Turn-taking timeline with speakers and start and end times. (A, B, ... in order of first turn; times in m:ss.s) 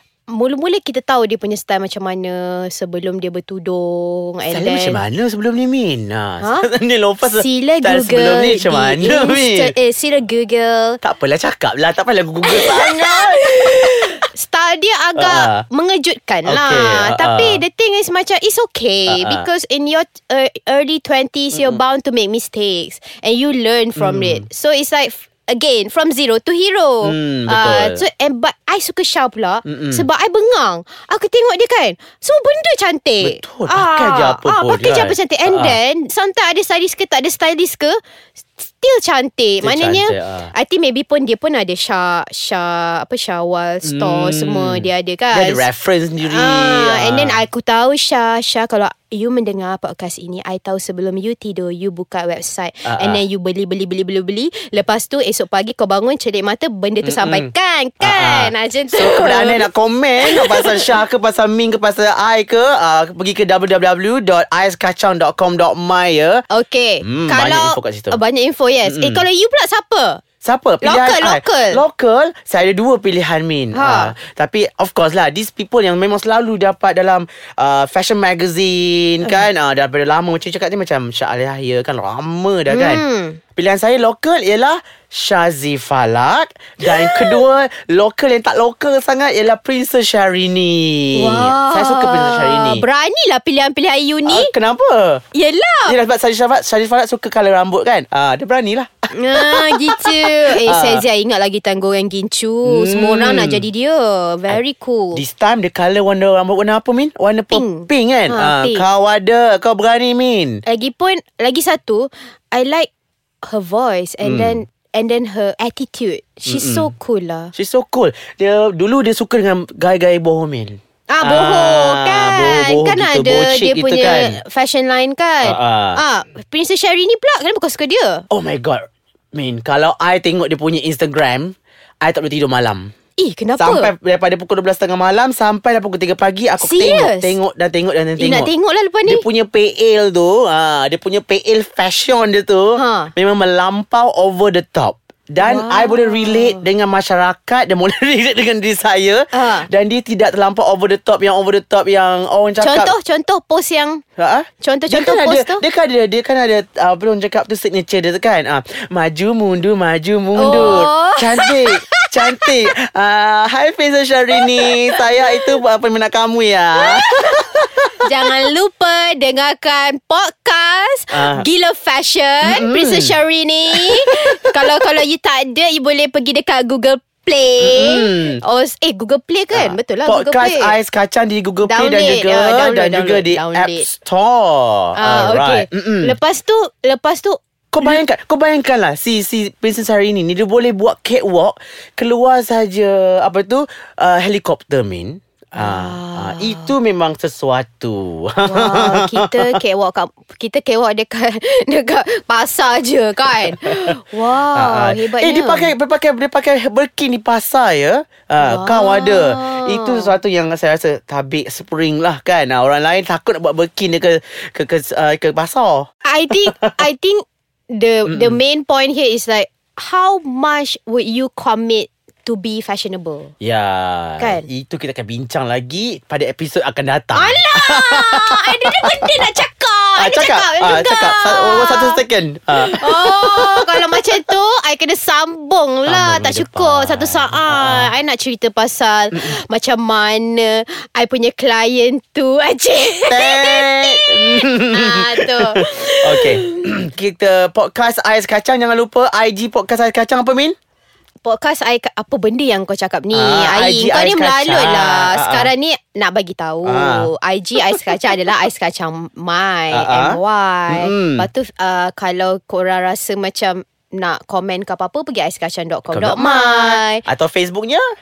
0:00.3-0:05.0 A
0:04.5-0:09.7 B
0:06.4-0:06.7 A
0:07.2-0:11.0 A
0:11.0-0:14.2 B
0:12.5-0:45.6 A
0:15.2-0:15.6 B
0:16.4-0:17.6 B
0:19.1-0:19.5 B
0:21.5-0:21.8 B
0:24.0-0:24.4 B
0:27.0-0:28.0 B
0:29.6-0:30.0 B
0:33.2-0:35.8 B
0:39.6-0:40.5 B
0:43.8-0:47.4 B
0:46.2-0:59.7 A
0:52.8-0:53.2 B
0:57.0-0:57.5 B
0:58.0-1:06.4 B
1:00.2-1:00.8 A
1:06.5-1:10.2 A
1:07.0-1:08.2 B
1:08.8-1:09.2 B
1:10.4-1:23.0 B
1:10.8-1:11.8 A
1:13.7-1:14.1 A
1:22.7-1:23.4 A
1:23.6-1:32.8 B
1:26.8-1:27.4 A
1:31.1-1:34.5 A
1:34.2-1:35.2 B
1:35.3-1:36.0 A
1:35.9-1:41.0 B
1:39.1-1:45.2 A
1:42.6-1:43.6 B
1:45.1-1:50.6 B
1:47.5-1:48.8 A
1:50.6-1:52.9 A
1:53.4-1:57.5 A
1:54.2-1:54.6 B
1:56.5-1:56.9 B
1:57.5-2:04.4 B
2:01.1-2:08.2 A
2:05.4-2:06.0 B
2:08.3-2:12.9 B
2:13.2-2:13.9 A
2:13.6-2:18.5 B
2:16.6-2:17.4 A
2:18.2-2:19.2 A
2:19.1-2:32.9 B
2:22.8-2:23.1 A
2:25.4-2:26.6 A
2:29.3-2:29.7 A
2:32.6-2:34.0 A
2:34.2-2:48.3 B
2:34.6-2:35.6 A
2:40.4-2:42.5 A
2:44.4-2:45.5 A
2:46.8-2:47.3 A
2:48.0-3:00.8 A
2:51.1-2:51.4 B
2:52.4-2:53.1 B
2:53.7-2:54.1 B
2:57.6-2:58.4 B
2:59.5-3:06.1 B
3:01.6-3:03.9 A
3:05.0-3:08.0 A
3:07.7-3:19.6 B
3:15.6-3:16.7 A
3:18.4-3:25.7 A
3:23.4-3:23.9 B
3:24.5-3:35.9 B
3:28.4-3:30.2 A
3:36.0-3:43.3 A
3:38.1-3:38.4 B
3:43.4-3:49.1 B
3:44.2-3:44.4 A
3:47.1-3:52.0 A
3:50.0-3:54.0 B
3:52.6-4:06.6 A
3:55.9-3:57.9 B
4:03.1-4:10.5 B
4:11.2-4:27.0 A
4:13.1-4:15.5 B
4:16.7-4:17.1 B
4:19.7-4:20.2 B
4:20.7-4:21.3 B
4:25.9-4:27.8 B